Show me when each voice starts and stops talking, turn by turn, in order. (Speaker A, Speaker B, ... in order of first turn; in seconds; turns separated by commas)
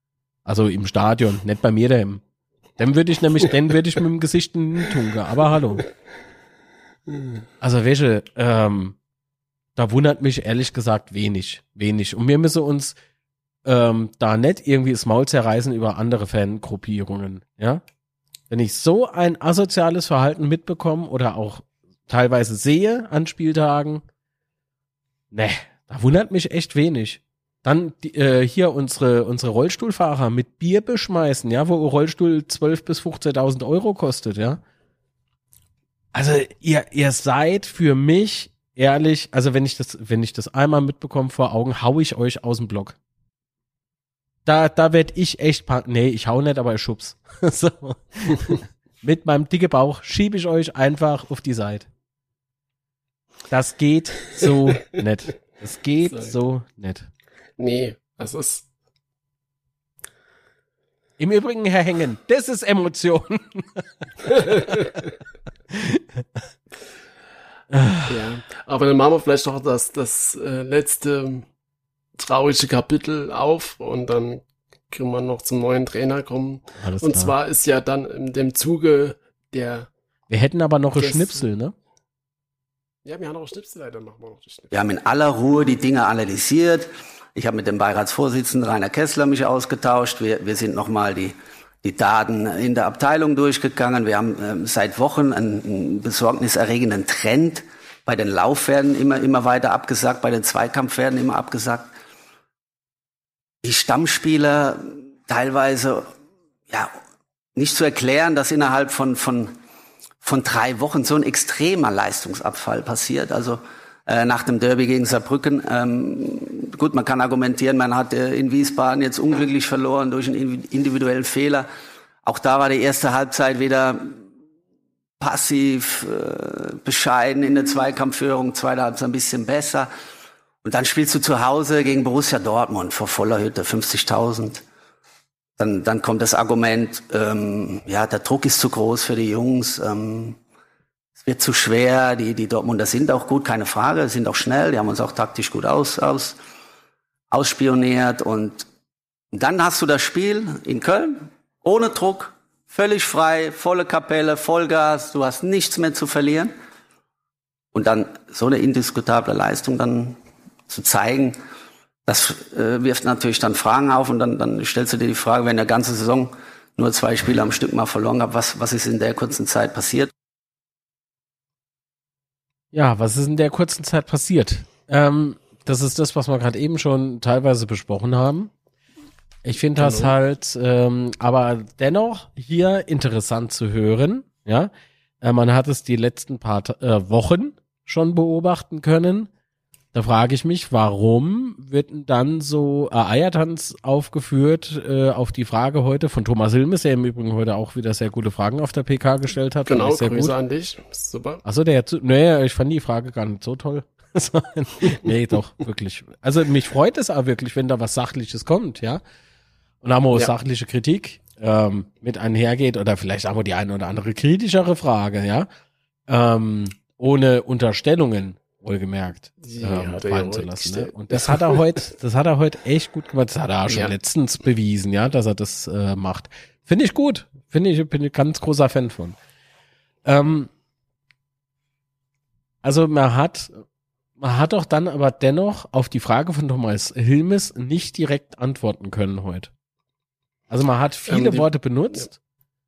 Speaker A: 0.5-2.2, Speaker A: 2.8-5.8, Speaker A: 7.6-9.0, Speaker A: 9.8-12.9, Speaker A: 13.6-17.8, Speaker A: 18.5-24.0, Speaker A: 25.3-34.6, Speaker A: 36.1-43.0, Speaker A: 44.4-51.9, Speaker A: 53.5-57.1, Speaker B: 56.1-56.3, Speaker B: 57.6-58.7, Speaker A: 61.2-65.0, Speaker B: 64.3-64.9, Speaker A: 65.7-66.4, Speaker A: 67.7-68.1, Speaker B: 68.0-71.5, Speaker B: 72.2-79.9, Speaker A: 76.8-77.3, Speaker A: 80.3-81.7, Speaker B: 81.0-81.4, Speaker B: 83.0-84.7, Speaker C: 84.7-101.9, Speaker C: 103.6-106.1, Speaker C: 107.5-109.5, Speaker C: 110.2-121.7, Speaker C: 122.2-124.1, Speaker C: 125.2-129.9, Speaker C: 130.6-134.6, Speaker C: 135.6-140.4, Speaker C: 141.2-146.4, Speaker C: 147.3-148.7, Speaker C: 149.3-156.5, Speaker C: 157.7-160.2, Speaker C: 160.7-161.4, Speaker C: 162.1-170.1, Speaker A: 172.7-178.5, Speaker A: 179.4-189.3, Speaker B: 179.8-180.1, Speaker A: 189.9-200.3, Speaker B: 199.7-201.4, Speaker A: 201.4-209.0, Speaker A: 209.8-215.5, Speaker A: 216.1-229.2, Speaker B: 219.4-221.6, Speaker B: 223.7-223.9, Speaker A: 230.0-230.5, Speaker A: 232.6-233.6, Speaker A: 234.2-239.5, Speaker A: 240.5-242.2, Speaker B: 241.1-242.1